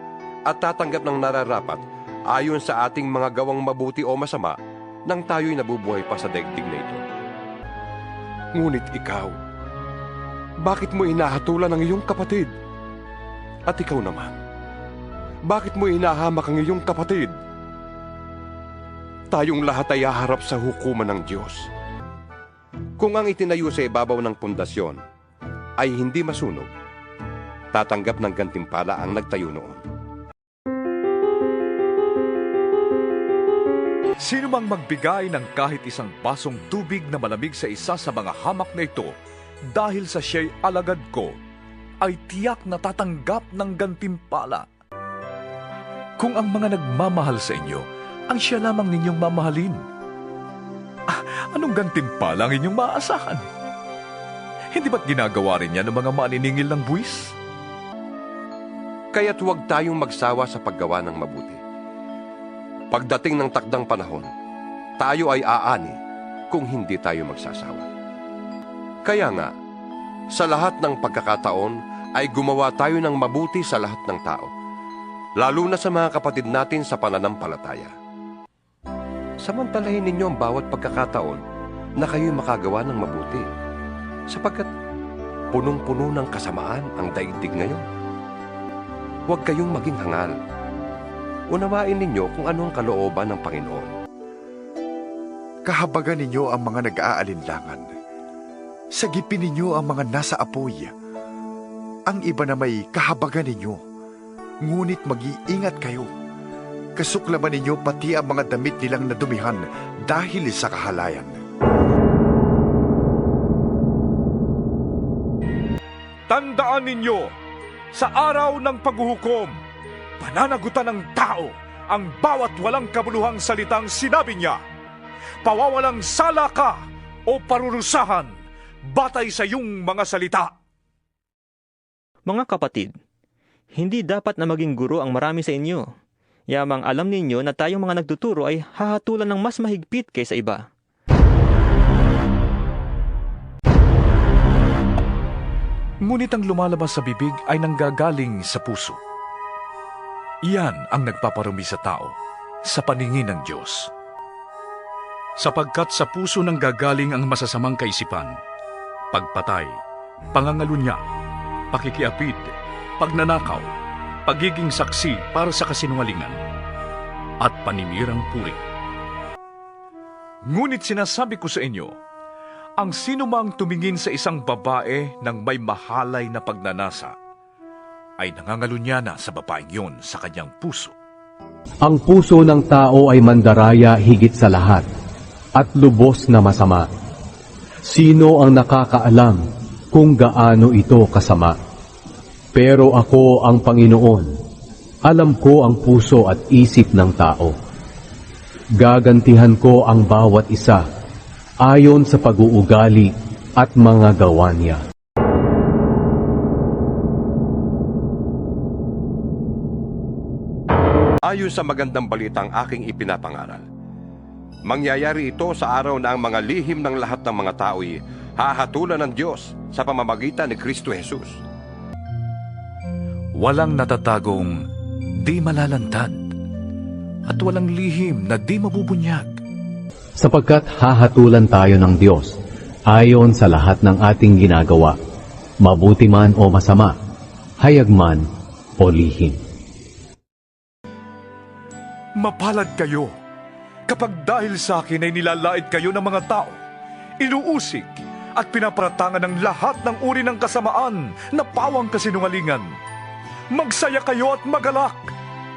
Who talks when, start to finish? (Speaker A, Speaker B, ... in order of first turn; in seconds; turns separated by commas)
Speaker A: 0.5-1.8, Speaker A: 2.3-4.6, Speaker A: 5.1-7.0, Speaker A: 8.6-9.3, Speaker A: 10.6-12.5, Speaker A: 13.7-14.4, Speaker A: 15.5-17.3, Speaker A: 19.3-21.7, Speaker A: 23.0-25.0, Speaker A: 25.8-26.7, Speaker A: 27.7-29.8, Speaker B: 34.2-39.2, Speaker B: 39.7-41.4, Speaker B: 42.0-44.7, Speaker B: 46.2-49.8, Speaker B: 51.1-53.5, Speaker B: 54.7-57.4, Speaker A: 59.1-61.6, Speaker A: 62.9-64.3, Speaker A: 65.0-66.0, Speaker A: 66.5-67.9, Speaker A: 69.1-69.5, Speaker A: 70.4-74.5, Speaker A: 75.4-77.9, Speaker A: 79.4-81.4, Speaker A: 82.0-83.5, Speaker A: 84.3-84.7, Speaker A: 85.5-87.8, Speaker A: 89.3-90.3, Speaker A: 91.5-93.9, Speaker C: 95.7-97.9, Speaker C: 98.9-100.9, Speaker C: 102.1-103.8, Speaker C: 104.6-106.1, Speaker C: 107.0-111.4, Speaker B: 116.3-117.3, Speaker B: 117.9-119.6, Speaker B: 120.2-124.6, Speaker B: 125.4-130.5, Speaker D: 132.3-132.9, Speaker D: 133.7-135.9, Speaker D: 136.5-140.7, Speaker B: 146.0-149.0, Speaker B: 150.4-153.9, Speaker B: 155.4-158.4, Speaker B: 159.1-159.8, Speaker B: 160.3-161.0, Speaker B: 161.7-163.7, Speaker B: 164.3-166.4, Speaker B: 167.4-168.6, Speaker B: 170.4-172.0, Speaker B: 172.8-177.2, Speaker B: 178.2-180.9, Speaker E: 181.8-184.8, Speaker E: 185.6-186.9, Speaker E: 187.9-189.4, Speaker E: 189.9-191.6, Speaker E: 192.6-194.3, Speaker E: 195.1-197.5, Speaker E: 198.8-200.8, Speaker E: 201.6-204.8, Speaker A: 211.2-213.7, Speaker A: 214.7-221.4, Speaker B: 223.4-224.6, Speaker B: 225.2-226.2, Speaker B: 227.3-229.4, Speaker E: 230.2-232.3, Speaker E: 232.9-234.9, Speaker E: 235.6-236.9, Speaker E: 237.6-238.2, Speaker E: 238.8-239.4, Speaker B: 242.2-243.1, Speaker B: 243.9-246.6, Speaker B: 247.2-252.8, Speaker B: 253.5-255.1